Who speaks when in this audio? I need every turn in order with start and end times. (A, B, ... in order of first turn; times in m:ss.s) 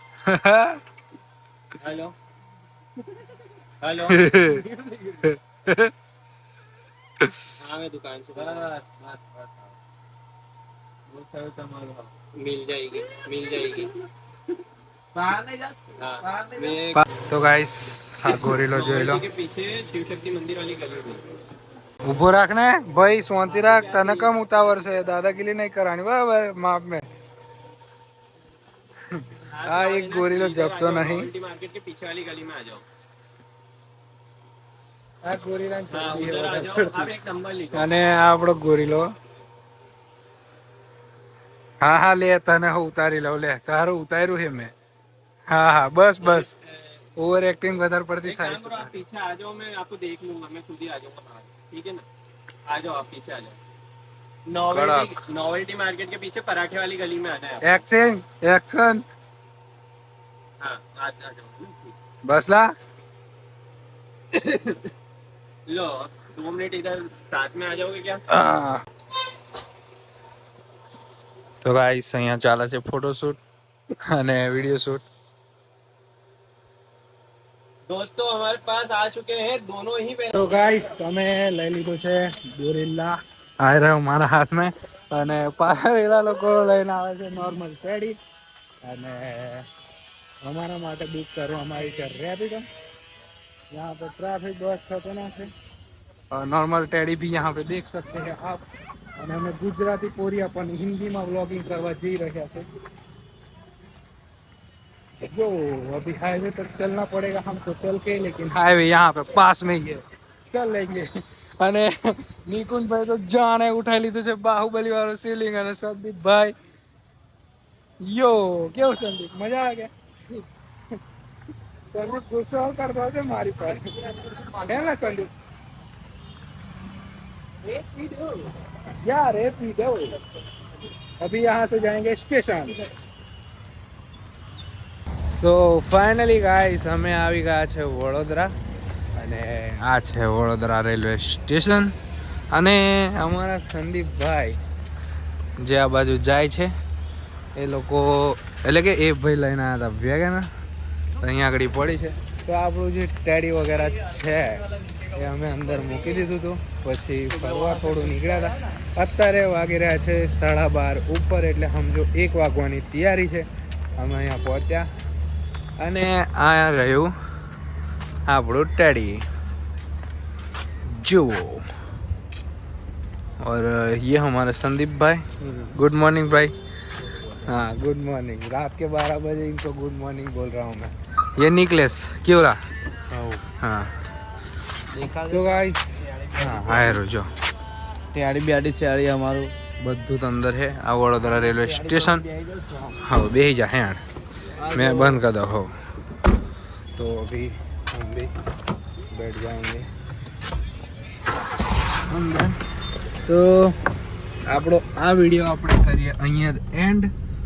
0:00.2-0:00.8 A
0:01.8-0:02.2 B
0:03.8-0:05.1 B
0:04.1-0:04.6 A
0:05.7-0:05.9 A
0:07.2-0:07.5 A
0:07.6-0:08.8 B
0:08.4-0:09.7 C
0:11.1-0:12.1 C
0:12.4-0:13.9 B
0:15.1-0:16.8 C
0:16.0-0:17.0 B
0:16.9-0:19.2 A
0:18.3-0:21.2 B
0:22.0-0:27.0 A
0:23.4-0:25.2 B
0:29.1-0:31.3 A
0:29.5-0:32.8 B
0:35.2-0:37.1 A
0:35.9-0:37.9 B
0:37.7-0:39.1 A
0:41.8-0:44.7 A
0:45.5-0:46.5 A
0:46.2-0:47.1 B
0:47.2-0:49.0 A
0:48.2-0:52.1 B
0:52.7-0:53.6 B
0:54.5-0:57.9 B
0:54.7-0:55.1 A
0:57.6-0:59.0 A
1:00.6-1:02.0 B
1:02.2-1:02.7 A
1:04.3-1:04.9 B
1:05.7-1:08.2 B
1:08.3-1:08.8 A
1:11.6-1:13.4 A
1:14.1-1:15.0 A
1:17.9-1:20.5 B
1:20.3-1:28.2 A
1:28.8-1:29.7 A
1:30.4-1:32.7 A
1:33.7-1:35.5 A
1:36.3-1:38.6 A
1:39.2-1:42.7 A
1:45.2-1:56.5 A
1:58.0-1:59.9 A
2:01.9-2:05.3 A
2:09.0-2:10.2 A
2:11.2-2:12.8 A
2:15.3-2:18.5 A
2:19.2-2:21.9 A
2:22.5-2:24.6 A
2:25.6-2:26.7 A
2:27.6-2:30.5 A
2:31.2-2:44.9 A
2:37.6-2:37.9 C
2:45.8-2:47.1 A
2:48.3-2:49.3 A
2:50.9-2:51.7 A
2:53.4-2:56.6 A
2:55.4-2:55.8 C
2:57.0-2:57.6 C
2:57.4-3:02.6 A
3:03.1-3:03.4 C
3:03.6-3:03.9 A
3:04.9-3:07.0 C
3:05.3-3:07.3 A
3:08.1-3:09.5 C
3:09.8-3:12.3 A
3:11.2-3:13.0 C
3:13.0-3:14.0 A
3:14.6-3:15.2 C
3:14.7-3:15.7 A
3:17.0-3:18.3 A
3:19.1-3:19.9 A
3:22.1-3:22.6 A
3:23.3-3:23.8 A
3:24.5-3:27.1 A